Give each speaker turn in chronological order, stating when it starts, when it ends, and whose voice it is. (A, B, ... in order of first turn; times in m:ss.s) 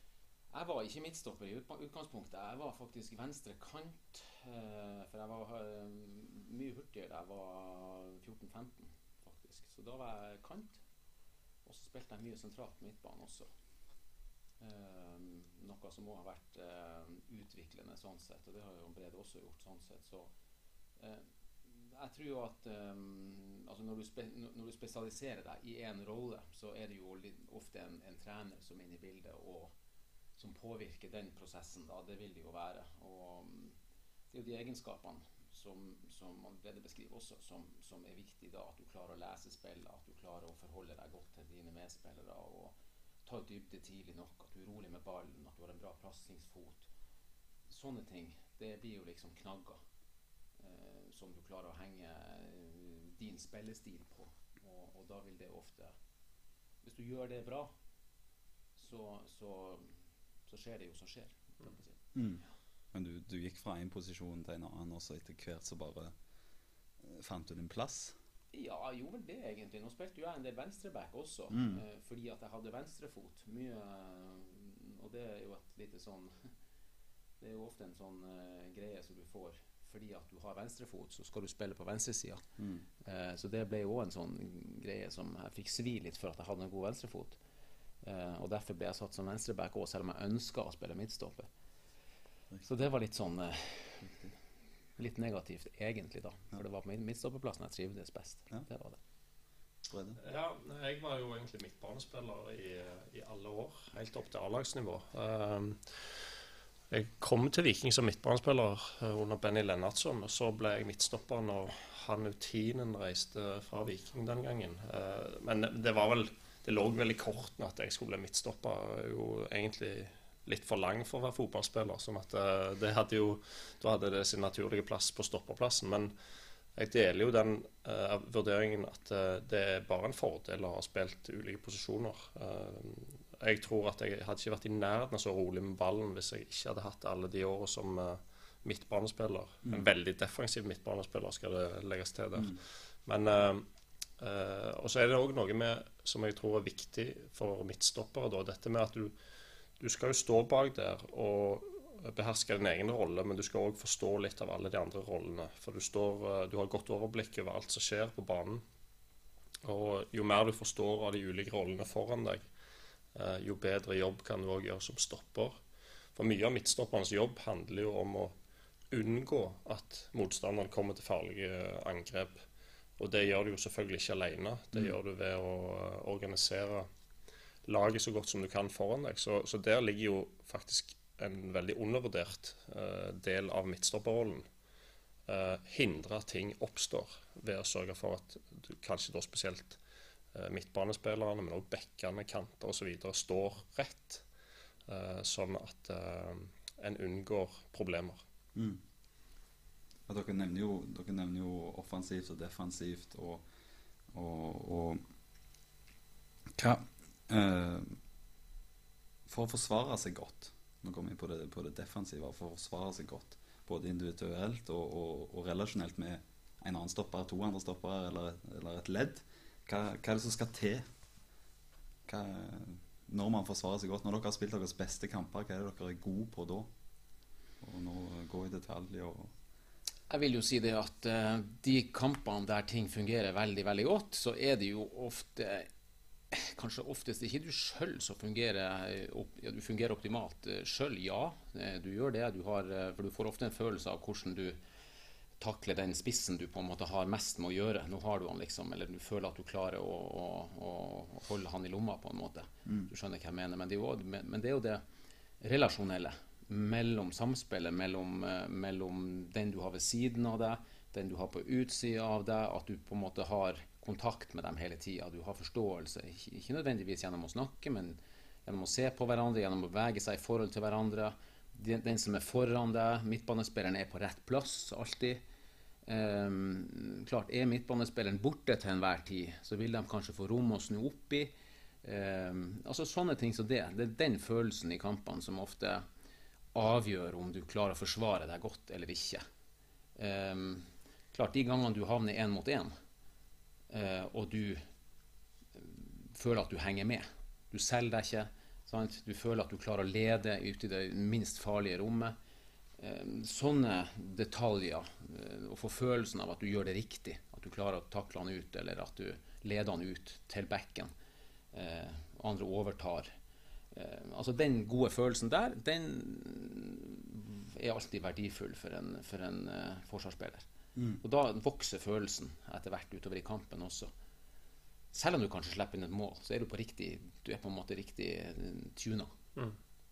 0:00.5-0:10.8 A
0:11.6-0:13.5 A
0:14.6-0:20.3 A
0:21.0-0:29.7 A
0:30.4-0:33.8 A
0:34.3-0:46.9 A
0:47.7-0:49.8 A
0:50.6-0:55.9 A
0:56.8-0:57.7 A
0:58.8-0:59.9 A
1:00.5-1:02.0 A
1:02.1-1:06.1 B
1:07.0-1:08.2 B
1:08.5-1:16.5 A
1:11.5-1:11.8 B
1:17.4-1:22.4 A
1:22.6-1:22.8 B
1:23.0-1:27.4 A
1:28.0-1:31.5 A
1:32.6-1:34.1 A
1:34.0-1:34.3 B
1:35.0-1:39.0 A
1:39.9-1:40.2 B
1:40.2-1:46.0 C
1:46.9-2:06.1 C
2:06.8-2:23.6 C
2:24.2-2:29.1 C
2:29.8-2:38.6 C
2:39.6-2:42.4 C
2:43.1-2:45.6 C
2:46.1-2:48.3 C
2:48.9-2:52.4 C
2:53.0-2:56.9 C
2:57.6-3:04.4 C
3:05.3-3:09.8 C
3:10.3-3:14.2 C
3:14.9-3:18.2 C
3:18.5-3:18.8 B
3:20.1-3:23.4 B
3:24.1-3:25.0 B
3:26.5-3:28.0 B
3:29.3-3:40.8 B
3:42.0-3:46.7 B
3:47.6-3:49.3 B
3:50.1-3:55.7 A
3:56.3-4:04.6 A
4:05.4-4:14.8 A
4:15.4-4:35.2 A
4:35.8-4:41.3 A
4:41.8-4:45.8 A
4:46.5-4:49.2 A
4:50.0-4:52.7 A
4:53.7-4:54.6 A
4:55.5-5:02.1 A
5:02.8-5:10.9 A
5:11.5-5:13.1 A
5:13.7-5:20.4 A
5:20.8-5:21.0 B
5:21.0-5:23.9 A
5:24.9-5:29.1 A